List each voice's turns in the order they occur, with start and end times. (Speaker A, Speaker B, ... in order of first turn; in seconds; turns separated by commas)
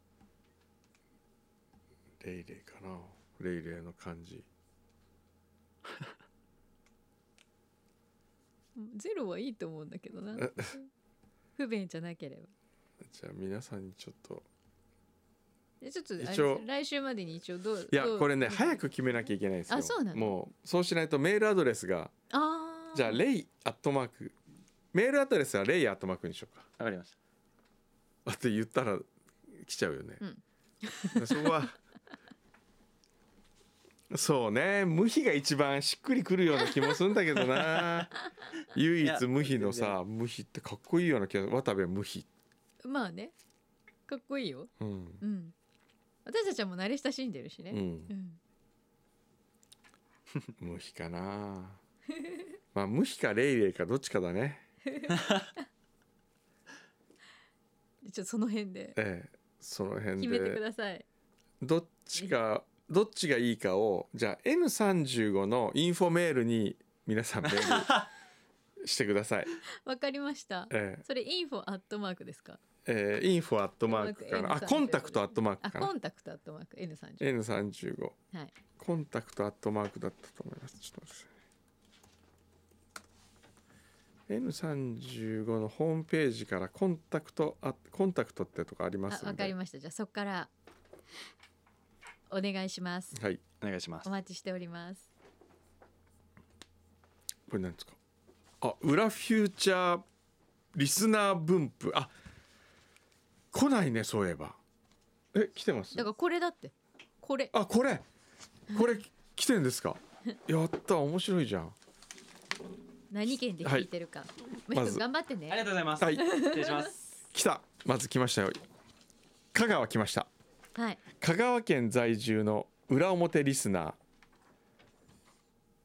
Speaker A: 2.2-4.5, Speaker B: 8.8-10.9, Speaker A: 10.3-10.7, Speaker B: 11.6-12.5, Speaker A: 13.0-14.5, Speaker B: 15.8-18.8, Speaker A: 16.2-16.6, Speaker A: 17.9-22.1, Speaker B: 19.7-20.4, Speaker B: 22.3-23.2, Speaker A: 22.9-24.4, Speaker A: 24.9-26.7, Speaker C: 26.8-27.1, Speaker A: 28.2-30.2, Speaker B: 30.2-31.5, Speaker A: 31.1-31.8, Speaker A: 34.1-38.1, Speaker A: 38.7-42.3, Speaker C: 39.0-40.0, Speaker B: 42.8-43.3, Speaker B: 44.1-45.5, Speaker A: 44.8-45.2, Speaker B: 46.2-48.4, Speaker A: 47.7-48.1, Speaker A: 50.6-51.8, Speaker A: 52.7-54.6, Speaker B: 54.9-55.3, Speaker B: 58.0-59.0, Speaker A: 59.0-60.6, Speaker B: 60.2-61.0, Speaker A: 61.6-68.0, Speaker C: 67.7-68.0, Speaker A: 68.8-69.5, Speaker B: 69.8-72.6, Speaker A: 70.7-71.0, Speaker A: 72.8-75.9, Speaker B: 73.8-77.3, Speaker A: 77.2-78.2, Speaker A: 78.8-81.3, Speaker A: 84.3-89.5, Speaker B: 89.1-90.5, Speaker B: 92.3-93.2, Speaker A: 93.1-93.4, Speaker C: 93.6-94.1, Speaker B: 94.0-95.1, Speaker A: 97.5-98.0, Speaker A: 98.6-100.0, Speaker A: 100.7-102.1, Speaker A: 103.5-104.6, Speaker A: 105.3-106.1, Speaker B: 105.9-107.5, Speaker A: 107.5-108.0, Speaker B: 108.7-109.0, Speaker A: 108.7-111.8, Speaker B: 113.1-116.9, Speaker A: 113.6-113.9, Speaker A: 114.7-115.0, Speaker C: 115.5-117.1, Speaker A: 116.0-116.2, Speaker A: 117.3-118.6, Speaker A: 119.5-120.3, Speaker B: 120.8-121.0, Speaker A: 121.2-124.0